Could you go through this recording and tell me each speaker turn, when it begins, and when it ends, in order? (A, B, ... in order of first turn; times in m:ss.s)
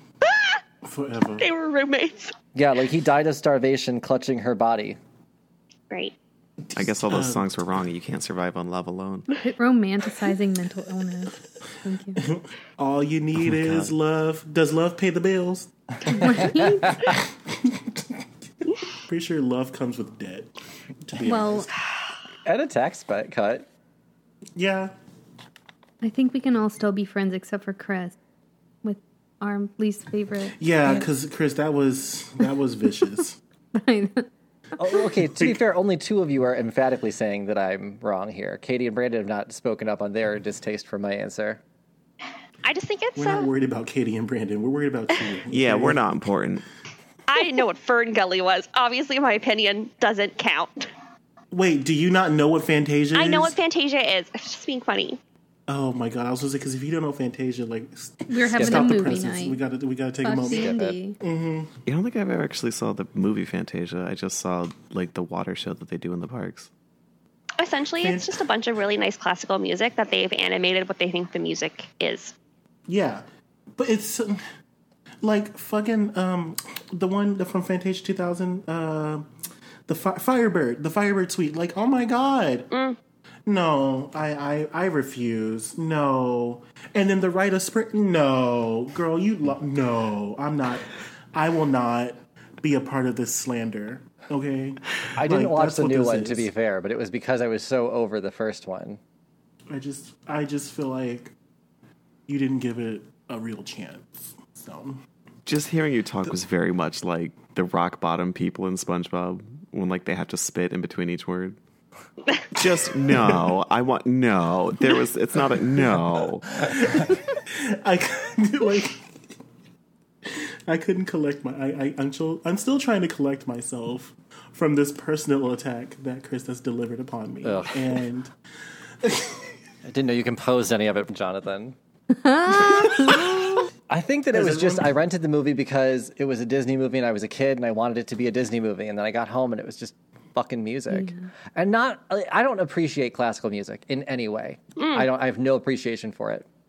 0:00.2-0:00.6 A
0:00.8-0:01.5 B
0:01.4-0:02.4 A
0:02.6-0:05.0 C
0:06.6-0:07.5 B
0:06.8-0:09.3 D
0:09.4-0:12.2 E
0:12.2-0:18.1 B
0:13.4-0:13.9 D
0:16.1-0:17.0 E
0:16.5-0:16.9 C
0:19.1-0:20.5 B
0:21.1-0:21.7 B
0:21.2-0:21.7 E
0:22.4-0:23.7 C
0:24.6-0:24.9 B
0:26.0-0:28.2 E
0:28.8-0:31.0 E
0:30.6-0:33.4 B
0:33.8-0:34.3 E
0:34.8-0:41.6 C
0:42.6-0:43.5 A
0:43.2-0:46.0 B
0:45.5-0:46.6 D
0:47.3-0:50.9 A
0:51.5-0:53.6 B
0:53.1-0:55.2 A
0:55.7-1:01.7 B
0:58.3-0:59.6 E
0:58.5-0:59.1 C
1:00.2-1:01.2 E
1:00.5-1:00.9 C
1:01.9-1:06.7 D
1:07.6-1:12.3 A
1:08.0-1:08.4 B
1:12.9-1:13.2 B
1:13.8-1:14.4 B
1:15.2-1:19.3 B
1:19.9-1:22.7 B
1:22.7-1:23.0 A
1:23.5-1:36.5 B
1:35.2-1:39.0 C
1:39.7-1:41.3 B
1:42.3-1:45.0 B
1:45.5-1:51.6 D
1:52.5-1:56.5 D
1:56.6-1:59.1 B
2:00.2-2:08.3 B
2:07.4-2:07.9 C
2:09.0-2:09.5 B
2:09.8-2:11.8 C
2:12.1-2:13.2 E
2:12.7-2:13.5 B
2:13.9-2:26.4 C
2:14.3-2:15.0 B
2:20.9-2:21.3 E
2:24.8-2:25.1 A